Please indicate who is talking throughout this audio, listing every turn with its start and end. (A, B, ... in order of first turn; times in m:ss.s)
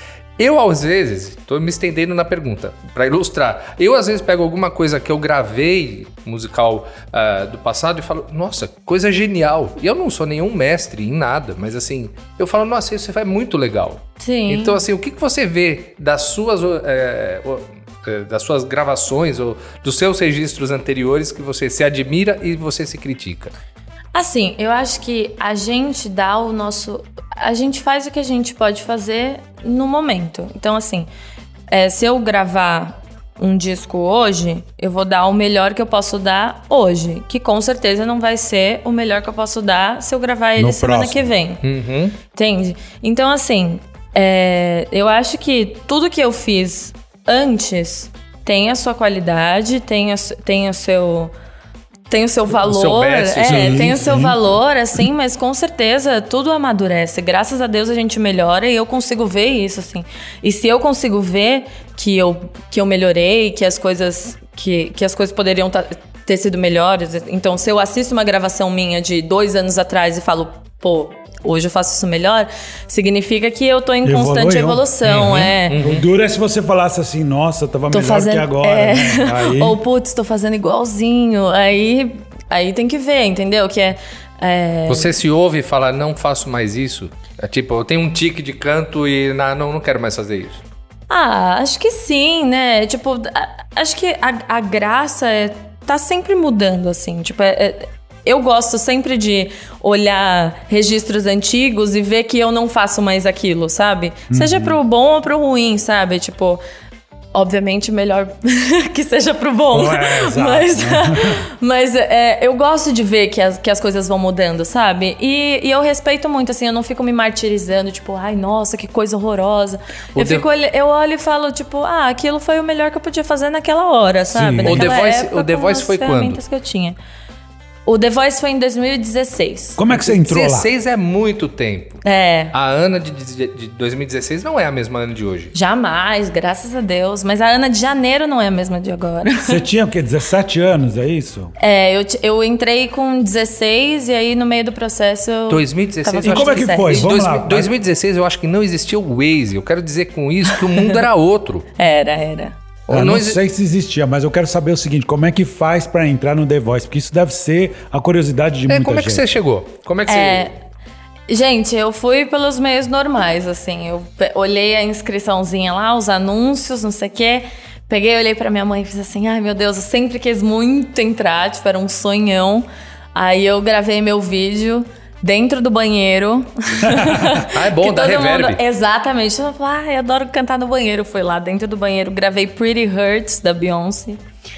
0:00.4-0:23.5 A
0:14.2-0:14.8 B
0:24.1-0:31.1 B
0:31.7-0:41.6 B
0:40.6-0:41.3 C
0:41.6-0:42.2 A
0:42.3-0:51.3 B
0:52.1-1:15.8 B
0:52.6-0:54.0 A
0:53.4-0:54.4 C
1:14.0-1:19.8 C
1:15.2-1:16.0 A
1:17.9-1:25.1 B
1:24.9-1:30.6 A
1:31.1-1:46.6 B
1:44.3-1:44.8 C
1:47.3-2:07.0 B
1:49.7-1:51.4 C
2:00.1-2:00.4 A
2:04.3-2:04.9 C
2:04.6-2:06.4 A
2:07.8-2:09.8 B
2:09.8-2:10.7 C
2:09.9-2:15.5 A
2:12.0-2:12.5 B
2:15.5-2:19.6 B
2:19.4-2:21.5 C
2:21.6-2:27.2 B
2:25.5-2:31.6 A
2:26.2-2:27.7 C
2:30.5-2:30.8 B
2:31.8-2:32.6 B
2:32.9-2:33.4 A
2:32.9-2:39.3 C
2:38.7-2:40.5 A
2:40.1-2:40.5 B
2:41.3-3:04.2 B
2:56.8-2:57.4 C
2:57.4-2:58.6 A